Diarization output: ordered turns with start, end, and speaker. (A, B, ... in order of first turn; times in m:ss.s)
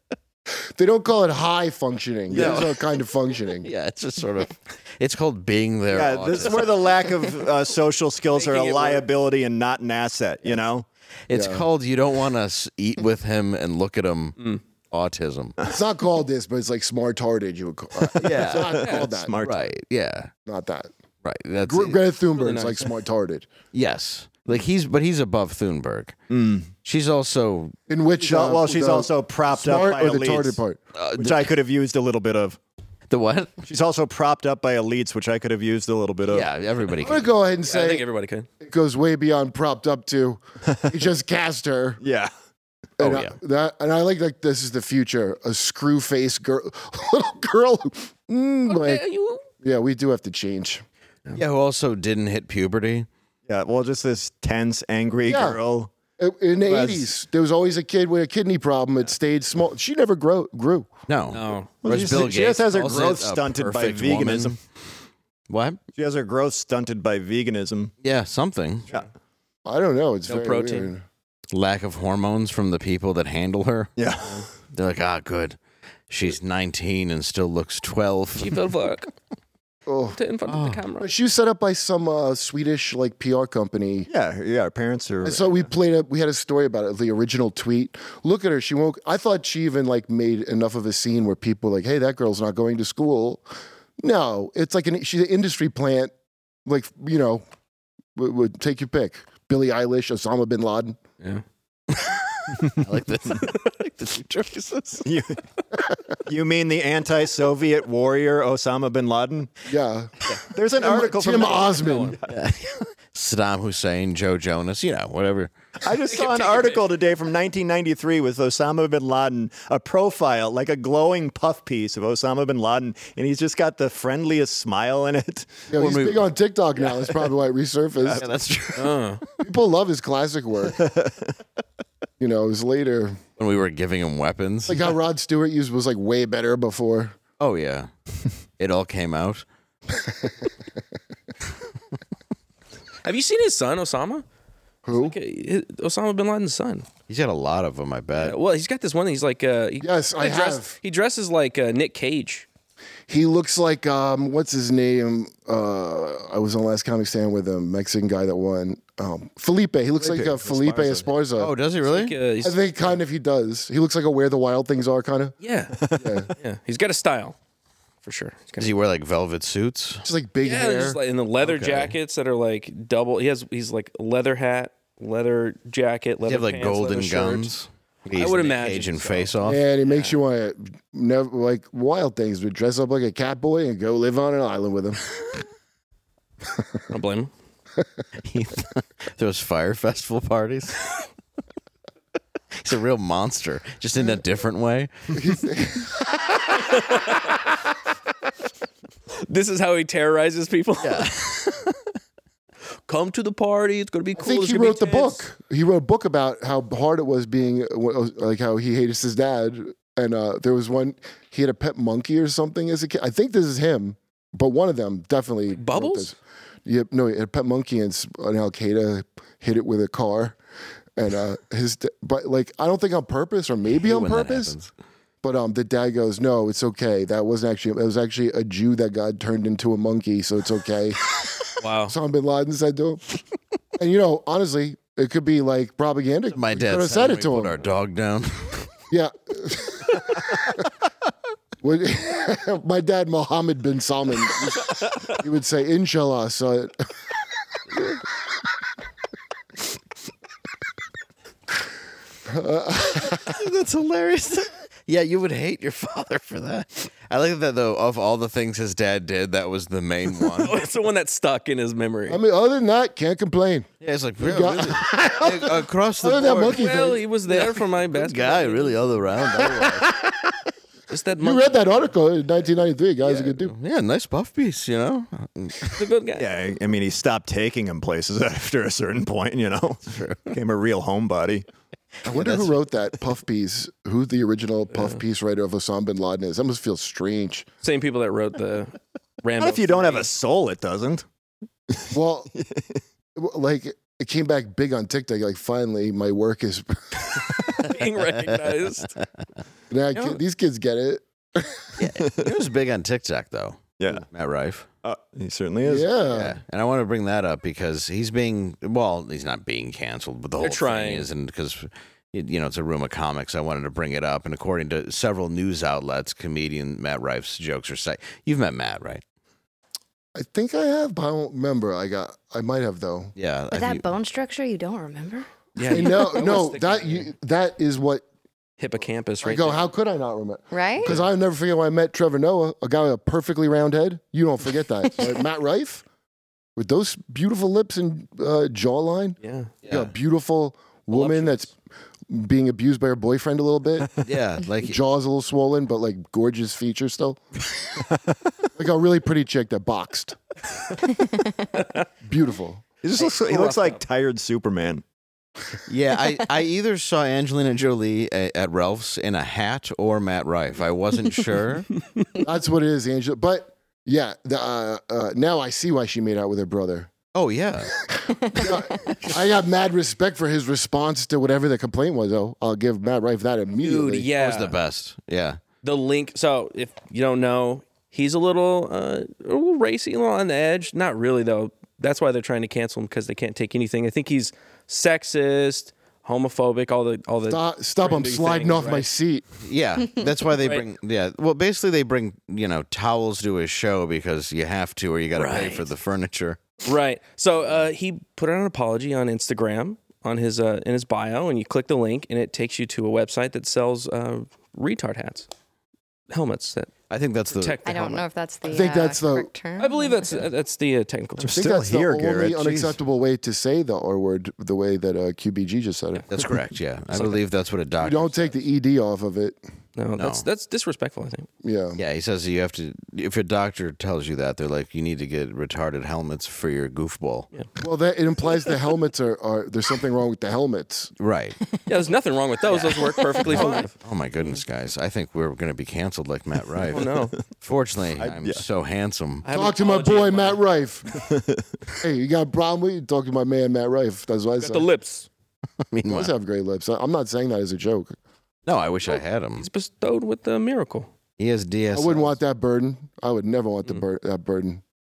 0:00.8-0:03.7 A
0:02.3-0:02.7 B
0:02.3-0:02.8 C
0:03.6-0:07.3 C
0:05.9-0:10.9 B
0:08.3-0:09.1 D
0:11.3-0:14.4 C
0:11.3-0:11.7 A
0:14.9-0:15.6 C
0:15.7-0:19.3 A
0:18.2-0:18.9 C
0:18.2-0:19.6 B
0:19.4-0:20.3 C
0:20.5-0:20.9 A
0:21.2-0:22.0 C
0:21.7-0:23.5 A
0:22.4-0:22.9 D
0:23.7-0:26.2 C
0:26.3-0:26.7 B
0:26.8-0:27.8 C
0:27.9-0:30.8 A
0:28.2-0:30.6 B
0:31.0-0:31.5 C
0:31.1-0:32.6 B
0:33.1-0:33.6 C
0:33.6-0:36.5 B
0:36.3-0:37.3 C
0:37.0-0:38.1 A
0:37.7-0:38.5 D
0:38.6-0:42.0 A
0:42.0-0:42.3 B
0:43.0-0:49.1 A
0:43.0-0:43.4 C
0:48.7-0:49.4 D
0:49.6-0:50.8 A
0:51.4-0:53.1 C
0:53.5-0:55.9 B
0:55.3-0:55.6 A
0:56.2-1:00.9 A
1:01.1-1:04.6 C
1:01.3-1:01.7 D
1:01.8-1:04.6 B
1:05.5-1:05.8 C
1:06.0-1:07.9 B
1:08.0-1:08.9 C
1:09.6-1:11.0 A
1:10.3-1:10.9 D
1:11.5-1:13.9 C
1:14.0-1:14.4 B
1:14.7-1:15.6 C
1:16.1-1:18.7 C
1:18.4-1:19.1 D
1:19.9-1:20.2 A
1:20.1-1:21.1 D
1:20.5-1:20.8 C
1:21.0-1:24.1 A
1:24.1-1:25.5 B
1:25.2-1:33.4 A
1:34.0-1:36.1 A
1:36.7-1:37.4 A
1:38.2-1:41.0 A
1:41.9-1:45.1 C
1:45.0-1:45.4 B
1:46.3-1:49.5 B
1:49.7-1:50.1 A
1:50.5-1:52.4 B
1:50.8-1:52.2 A
1:51.4-1:52.2 D
1:52.3-1:55.5 C
1:55.8-2:05.7 B
1:56.1-1:56.8 D
2:05.7-2:08.2 A
2:05.8-2:06.3 C
2:08.2-2:09.0 C
2:08.8-2:09.2 D
2:09.4-2:10.8 A
2:10.8-2:11.1 B
2:12.2-2:13.2 A
2:13.4-2:14.9 C
2:14.7-2:17.2 A
2:17.4-2:17.9 C
2:18.6-2:19.4 C
2:23.0-2:24.2 D
2:24.8-2:25.2 A
2:24.9-2:26.9 D
2:27.1-2:28.4 C
2:28.2-2:32.5 D
2:29.8-2:30.8 A
2:33.1-2:41.5 A
2:40.0-2:41.1 B
2:41.4-2:42.2 C
2:41.9-2:42.6 D
2:42.4-2:45.4 A
2:45.4-2:45.8 D
2:45.8-2:46.2 B
2:46.0-2:46.3 A
2:46.4-2:47.4 D
2:48.0-2:48.7 D
2:48.6-2:50.0 C
2:50.0-2:51.0 A
2:50.4-2:57.5 D
2:51.4-2:52.0 C
2:56.2-2:59.6 C
2:58.1-2:59.3 D
2:59.4-3:05.0 A
2:59.8-3:00.2 D
3:06.9-3:07.3 D
3:08.3-3:11.0 C
3:12.6-3:15.4 C
3:15.2-3:16.4 A
3:16.7-3:17.2 D
3:19.2-3:21.1 D
3:20.8-3:21.8 C
3:22.9-3:25.3 D
3:24.2-3:40.4 A
3:35.5-3:36.1 D
3:41.0-3:44.6 A
3:43.8-3:44.7 C
3:45.2-3:51.0 A
3:51.6-3:52.0 D
3:51.9-3:53.0 A
3:53.8-3:57.6 A
3:56.3-3:58.7 C
3:58.9-4:00.6 A
4:01.6-4:06.8 A
4:12.2-4:13.4 A
4:13.0-4:20.6 C
4:20.4-4:22.2 D
4:22.1-4:23.7 A
4:23.8-4:26.6 C
4:24.2-4:27.0 A
4:26.4-4:28.8 D
4:27.3-4:29.9 C
4:29.4-4:30.3 A
4:30.9-4:31.6 D
4:31.2-4:33.5 A
4:33.0-4:35.8 C
4:35.8-4:36.2 D
4:36.2-4:41.4 B
4:39.9-4:40.2 C
4:42.1-4:47.5 A
4:42.1-4:42.5 C
4:44.7-4:45.0 D
4:47.6-4:50.1 D
4:49.4-4:51.0 B
4:51.9-4:52.3 A
4:52.3-4:52.8 B
4:53.2-4:57.2 A
4:57.6-4:59.0 D
4:59.7-5:01.7 A
5:01.8-5:04.7 C
5:03.8-5:04.1 B
5:04.8-5:05.9 B
5:05.6-5:06.4 A
5:06.1-5:19.0 C
5:10.4-5:11.1 D
5:20.2-5:23.1 A
5:23.2-5:23.8 C
5:23.5-5:25.9 E
5:25.6-5:27.1 D
5:25.7-5:28.1 A
5:28.6-5:29.7 D
5:29.2-5:35.8 A
5:30.5-5:31.0 E
5:36.6-5:41.6 A
5:39.2-5:39.5 D
5:39.6-5:39.9 C
5:40.9-5:41.5 D
5:42.1-5:43.9 A
5:44.0-5:44.8 C
5:44.6-5:47.2 A
5:48.6-5:50.2 A
5:51.5-5:51.9 D
5:52.0-5:52.6 A
5:52.8-5:54.8 B
5:53.0-5:53.8 D
5:55.7-6:01.7 C
6:02.2-6:06.9 A
6:07.1-6:07.8 C
6:08.2-6:09.0 E
6:08.3-6:14.1 A
6:13.6-6:14.6 D
6:14.2-6:15.4 C
6:15.6-6:28.9 D
6:27.3-6:29.3 A
6:29.4-6:36.6 C
6:35.2-6:35.7 D
6:36.6-6:45.3 D
6:46.1-6:46.7 D
6:46.9-6:47.6 C
6:47.3-6:48.1 D
6:47.6-6:50.2 E
6:48.4-6:49.3 A
6:49.6-6:51.3 D
6:51.2-6:52.8 B
6:51.3-6:56.1 A
6:56.1-6:58.3 C
6:57.8-6:59.4 A
6:59.8-7:01.3 D
7:00.0-7:00.2 C
7:01.4-7:01.8 A
7:01.8-7:07.3 C
7:07.6-7:10.9 A
7:11.0-7:11.4 C
7:11.7-7:13.8 D
7:12.5-7:19.3 C
7:16.7-7:17.1 D
7:17.9-7:18.4 B
7:19.2-7:20.4 D
7:19.3-7:20.9 A
7:21.1-7:21.4 B
7:21.8-7:24.7 A
7:24.4-7:25.1 D
7:25.7-7:26.1 C
7:25.9-7:28.0 A
7:28.5-7:29.5 C
7:28.9-7:30.9 D
7:31.2-7:32.2 C
7:31.7-7:34.6 A